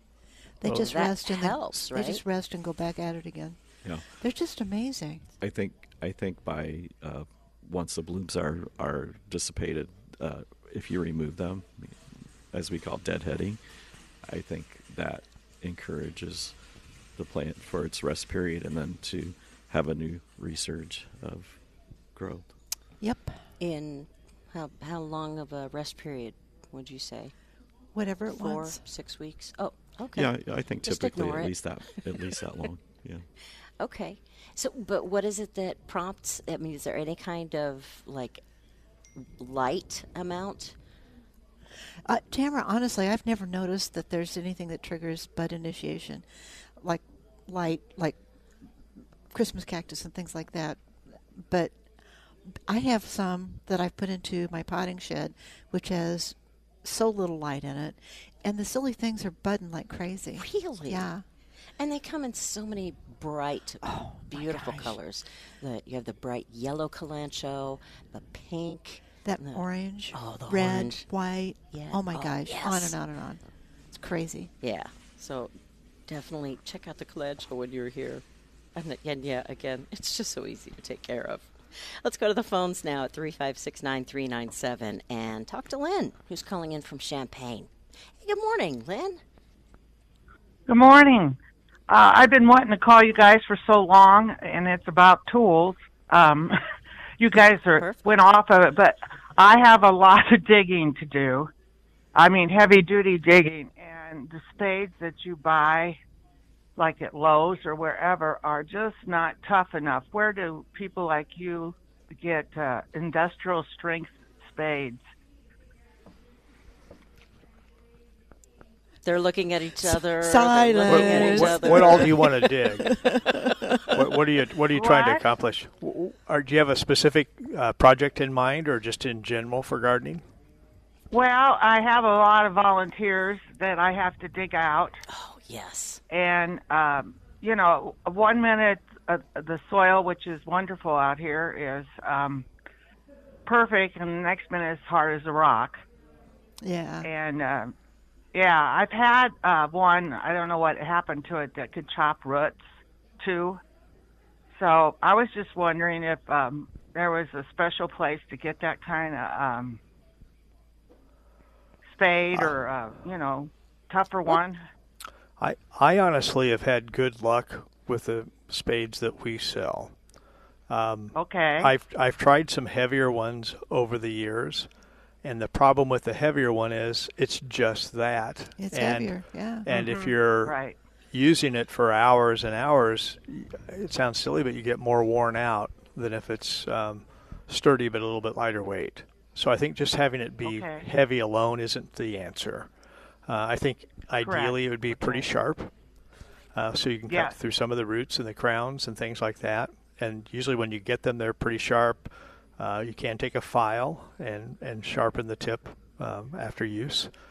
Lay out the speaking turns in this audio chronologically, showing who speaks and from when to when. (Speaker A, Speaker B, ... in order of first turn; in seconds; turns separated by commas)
Speaker A: 0.6-3.6, Speaker B: 0.6-2.2, Speaker A: 4.1-5.3, Speaker C: 5.4-12.0, Speaker C: 12.5-13.6, Speaker C: 14.2-16.5, Speaker C: 17.2-21.6, Speaker C: 22.1-22.5, Speaker A: 23.0-23.4, Speaker B: 23.6-27.3, Speaker A: 27.9-28.8, Speaker B: 28.3-32.3, Speaker C: 30.1-33.2, Speaker B: 33.8-38.4, Speaker B: 39.2-40.8, Speaker A: 42.0-46.2, Speaker A: 46.8-48.2, Speaker A: 49.3-51.8, Speaker A: 52.5-61.2, Speaker B: 60.4-61.1, Speaker B: 61.8-71.0, Speaker A: 63.8-65.0, Speaker A: 69.2-74.5, Speaker B: 71.7-73.0, Speaker B: 74.6-75.5, Speaker B: 76.1-78.2, Speaker B: 78.7-89.2, Speaker D: 90.7-96.6, Speaker D: 97.2-101.5, Speaker B: 97.8-98.0, Speaker D: 102.1-106.0, Speaker D: 106.8-115.0, Speaker B: 119.0-122.2, Speaker A: 119.8-124.1, Speaker E: 120.8-123.0, Speaker E: 123.9-130.2, Speaker D: 124.7-125.2, Speaker D: 131.1-135.0, Speaker B: 135.1-136.0, Speaker D: 136.1-142.5, Speaker D: 143.4-145.8, Speaker A: 146.6-147.1, Speaker D: 147.0-147.7, Speaker D: 148.3-152.6, Speaker D: 153.2-153.6, Speaker D: 154.5-159.8, Speaker D: 161.9-164.6, Speaker E: 165.4-169.9, Speaker E: 170.7-174.7, Speaker D: 171.1-171.7, Speaker E: 175.2-180.5, Speaker A: 178.6-179.7, Speaker D: 179.7-180.8, Speaker E: 181.1-192.7, Speaker D: 190.4-190.9, Speaker E: 193.3-195.7, Speaker D: 194.2-195.2, Speaker E: 196.5-207.1, Speaker D: 197.1-197.3